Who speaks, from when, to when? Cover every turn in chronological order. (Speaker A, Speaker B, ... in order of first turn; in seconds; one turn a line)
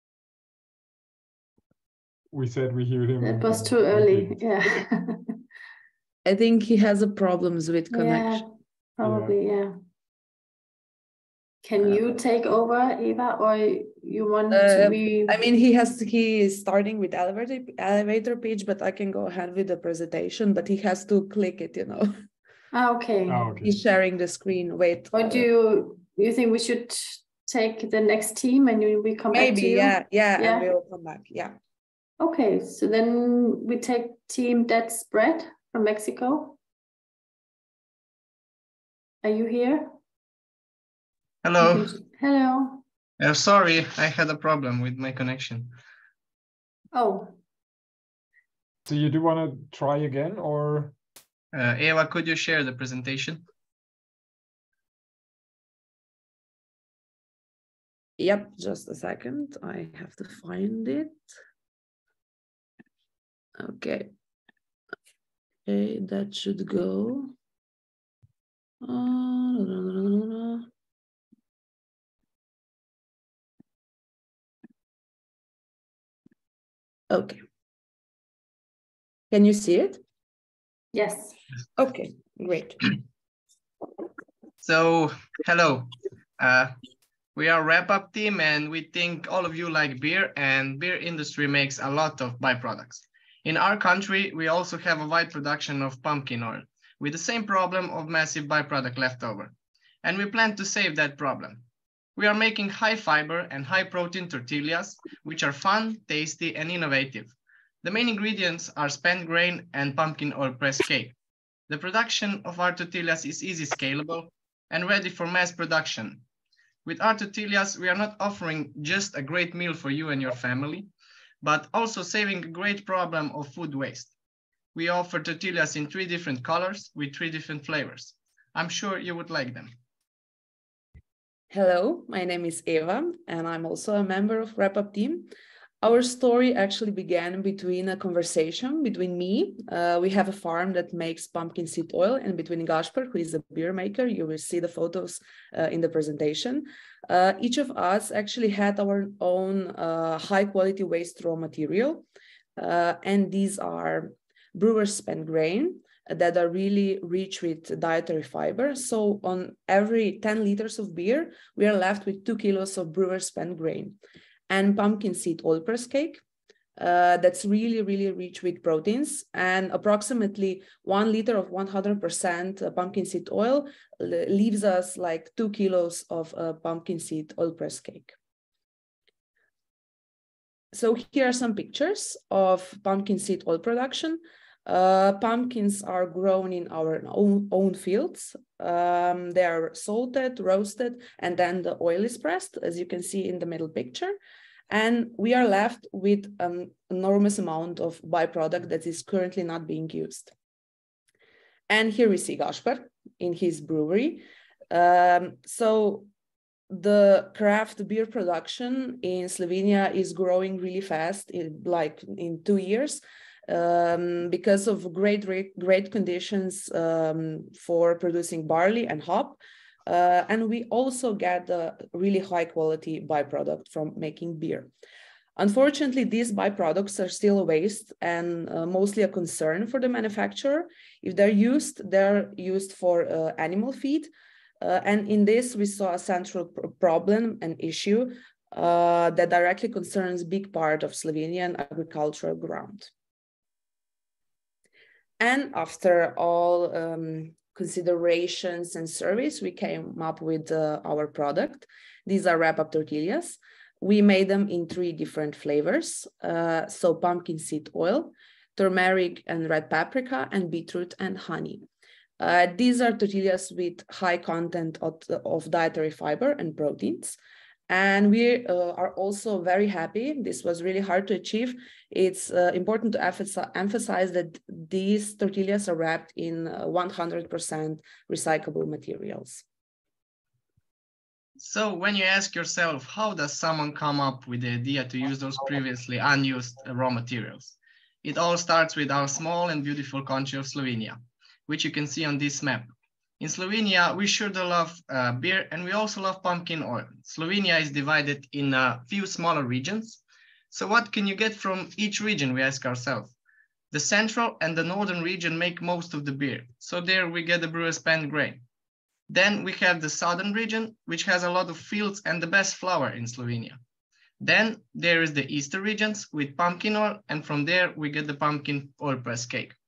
Speaker A: 2.3-4.4
Speaker B: 3.2-5.4
Speaker C: 6.3-8.4
Speaker B: 7.9-8.5
Speaker B: 9.0-9.8
Speaker A: 9.0-9.4
Speaker B: 11.6-15.4
Speaker C: 14.5-22.1
Speaker B: 22.7-23.5
Speaker A: 23.3-23.9
Speaker C: 23.6-25.5
Speaker B: 25.1-30.7
Speaker C: 29.3-31.6
Speaker B: 32.2-36.6
Speaker B: 39.2-40.0
Speaker D: 41.4-41.9
Speaker B: 41.6-42.8
Speaker D: 43.2-45.7
Speaker B: 46.9-47.4
Speaker A: 48.9-50.9
Speaker D: 51.5-53.4
Speaker C: 58.2-61.2
Speaker C: 63.6-64.1
Speaker C: 65.7-67.3
Speaker C: 68.8-70.7
Speaker C: 77.1-77.4
Speaker C: 79.3-80.0
Speaker B: 80.9-81.4
Speaker C: 81.8-82.8
Speaker D: 84.6-86.8
Speaker D: 87.4-99.5
Speaker D: 100.0-101.6
Speaker D: 102.2-111.2
Speaker D: 111.7-116.2
Speaker D: 116.9-120.9
Speaker D: 121.4-124.1
Speaker D: 124.8-129.7
Speaker C: 131.5-135.3
Speaker C: 135.8-152.0
Speaker C: 152.6-164.0
Speaker C: 164.5-166.2
Speaker C: 166.8-178.1
Speaker C: 180.7-194.2
Speaker C: 194.7-200.3
Speaker C: 201.7-206.1
Speaker C: 206.7-224.7
Speaker C: 225.4-234.1
Speaker C: 234.6-242.9
Speaker C: 245.2-261.6
Speaker C: 262.2-267.1
Speaker C: 267.7-279.4
Speaker D: 281.4-292.7
Speaker D: 293.2-303.1
Speaker D: 303.7-308.4
Speaker D: 309.1-313.6
Speaker D: 314.2-319.6